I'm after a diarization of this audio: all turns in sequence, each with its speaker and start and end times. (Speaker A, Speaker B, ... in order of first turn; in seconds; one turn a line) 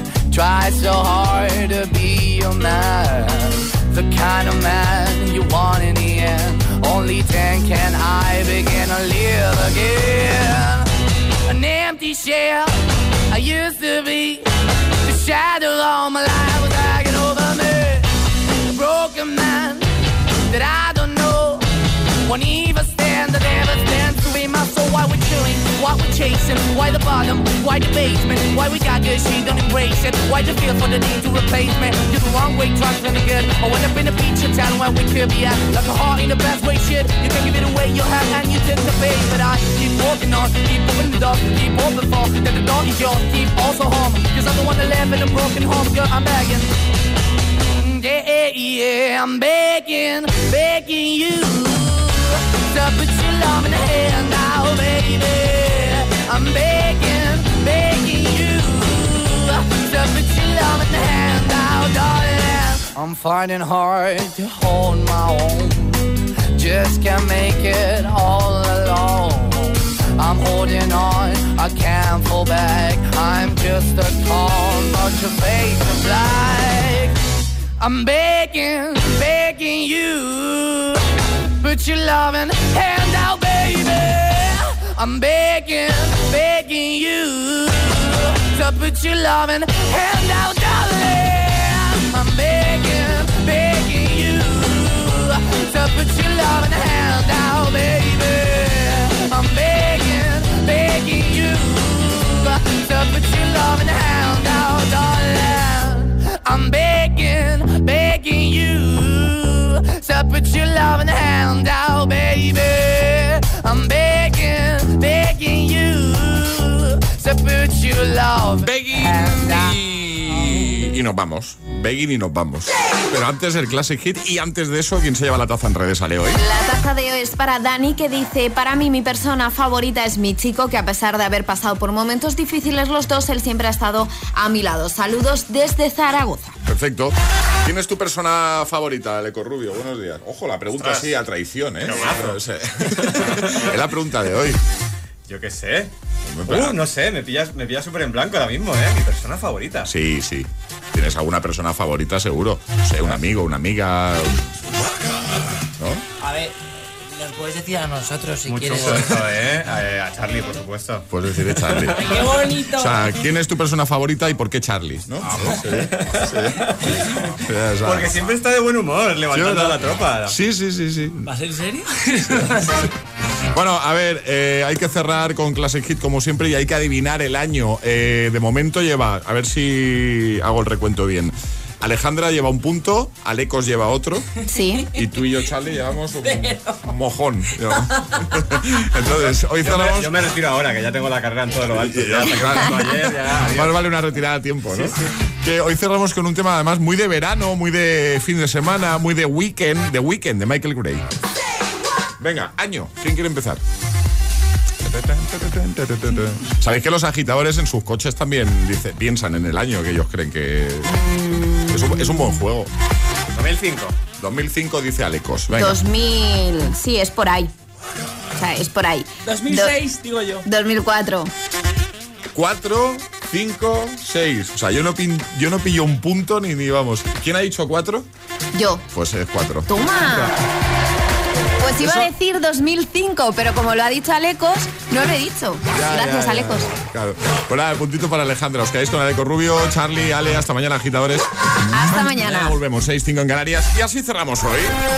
Speaker A: 0.3-10.9
Speaker A: 11.5-12.7
Speaker A: 13.3-14.5
Speaker A: 15.0-18.1
Speaker A: 18.7-19.9
Speaker A: 20.5-21.6
Speaker A: 22.3-46.7
Speaker A: 47.8-77.2
Speaker A: 77.8-81.0
Speaker A: 81.6-120.8
Speaker B: 118.6-126.4
Speaker C: 126.4-136.6
Speaker B: 136.7-144.6
Speaker D: 140.7-141.2
Speaker D: 141.8-143.8
Speaker D: 145.3-145.9
Speaker B: 146.3-146.8
Speaker D: 146.4-149.9
Speaker B: 149.9-154.5
Speaker E: 156.2-156.5
Speaker E: 157.1-158.9
Speaker D: 158.5-161.1
Speaker B: 161.1-162.2
Speaker D: 161.7-162.1
Speaker E: 162.0-163.2
Speaker B: 162.8-168.1
Speaker D: 165.2-167.0
Speaker D: 167.8-170.4
Speaker B: 169.3-171.3
Speaker E: 171.2-172.9
Speaker B: 173.5-184.3
Speaker C: 184.5-184.9
Speaker B: 184.9-190.2
Speaker E: 186.2-186.8
Speaker D: 189.1-193.9
Speaker B: 191.9-201.1
Speaker D: 194.6-195.0
Speaker B: 202.2-203.6
Speaker B: 204.8-212.7
Speaker C: 211.1-211.5
Speaker D: 213.3-214.0
Speaker B: 214.2-215.8
Speaker C: 215.5-217.5
Speaker C: 218.4-219.8
Speaker E: 219.3-220.4
Speaker C: 220.4-221.3
Speaker B: 222.3-228.1
Speaker C: 228.5-228.8
Speaker B: 228.9-229.7
Speaker C: 229.7-230.3
Speaker C: 231.6-236.7
Speaker B: 231.8-232.1
Speaker B: 235.7-244.8
Speaker C: 241.7-242.6